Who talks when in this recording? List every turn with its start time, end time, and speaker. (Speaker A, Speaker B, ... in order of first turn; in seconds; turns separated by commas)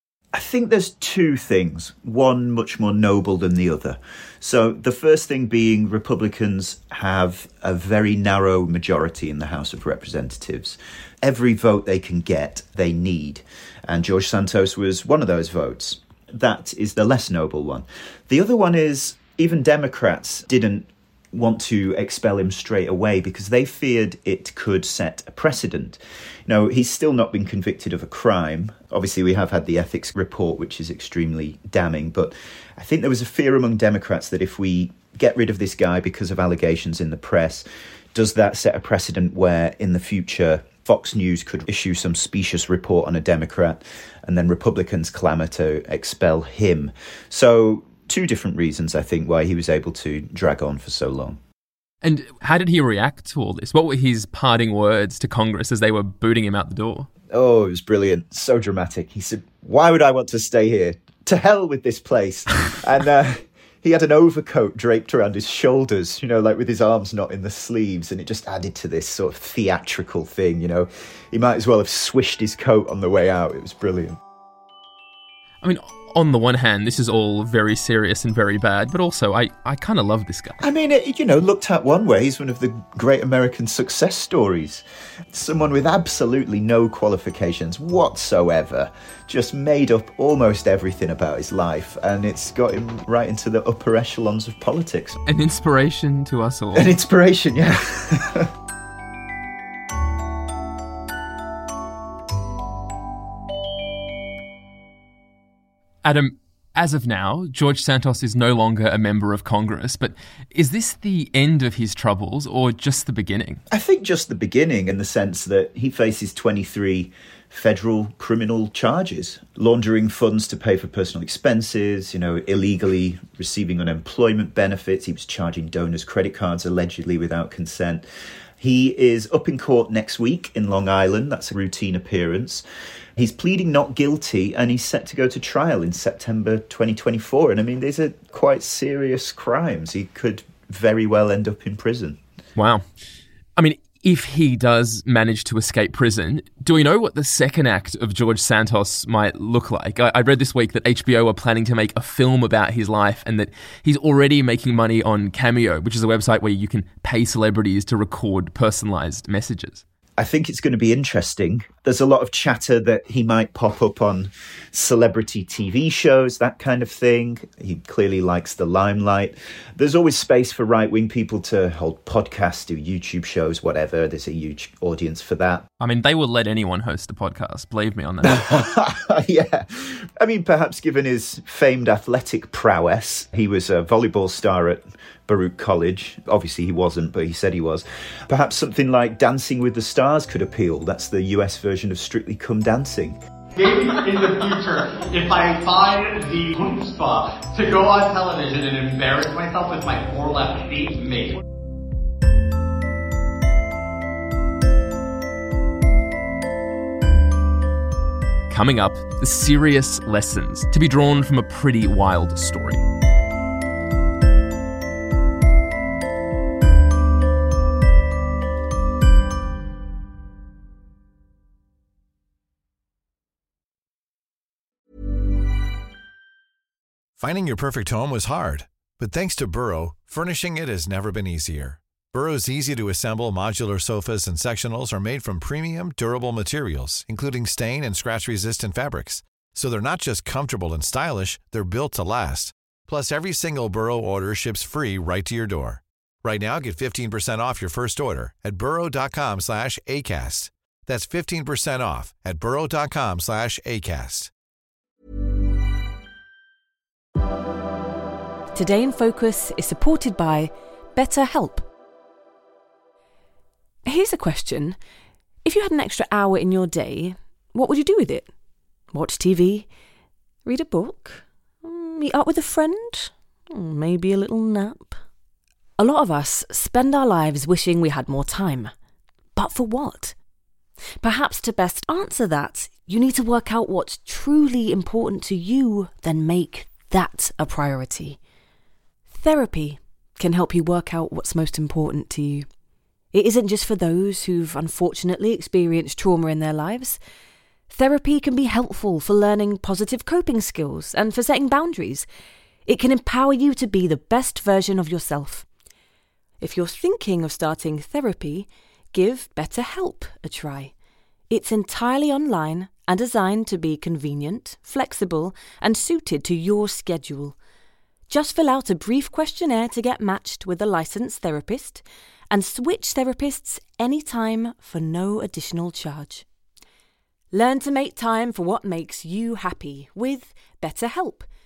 Speaker A: 0.3-51.4, Speaker B: 52.0-57.1, Speaker A: 57.3-74.2, Speaker B: 75.6-80.6, Speaker A: 80.6-95.2, Speaker B: 95.3-96.9, Speaker A: 96.7-98.5, Speaker B: 106.0-113.6, Speaker A: 113.7-128.0, Speaker A: 128.6-132.6, Speaker A: 133.2-142.2, Speaker B: 142.6-142.8, Speaker B: 143.6-159.8, Speaker A: 160.2-175.7, Speaker B: 175.8-178.5, Speaker A: 178.2-193.2, Speaker C: 193.6-201.4, Speaker B: 208.5-212.8, Speaker D: 227.2-254.3, Speaker E: 258.5-261.6, Speaker E: 263.9-264.8, Speaker E: 265.4-268.3, Speaker E: 268.9-269.7, Speaker E: 270.4-275.0, Speaker E: 275.8-278.7, Speaker E: 279.4-280.1, Speaker E: 281.0-288.2, Speaker E: 289.1-292.5, Speaker E: 293.1-297.0, Speaker E: 297.7-302.1, Speaker E: 302.6-305.4, Speaker E: 306.4-310.7, Speaker E: 311.3-317.4, Speaker E: 318.1-326.2, Speaker E: 327.3-331.3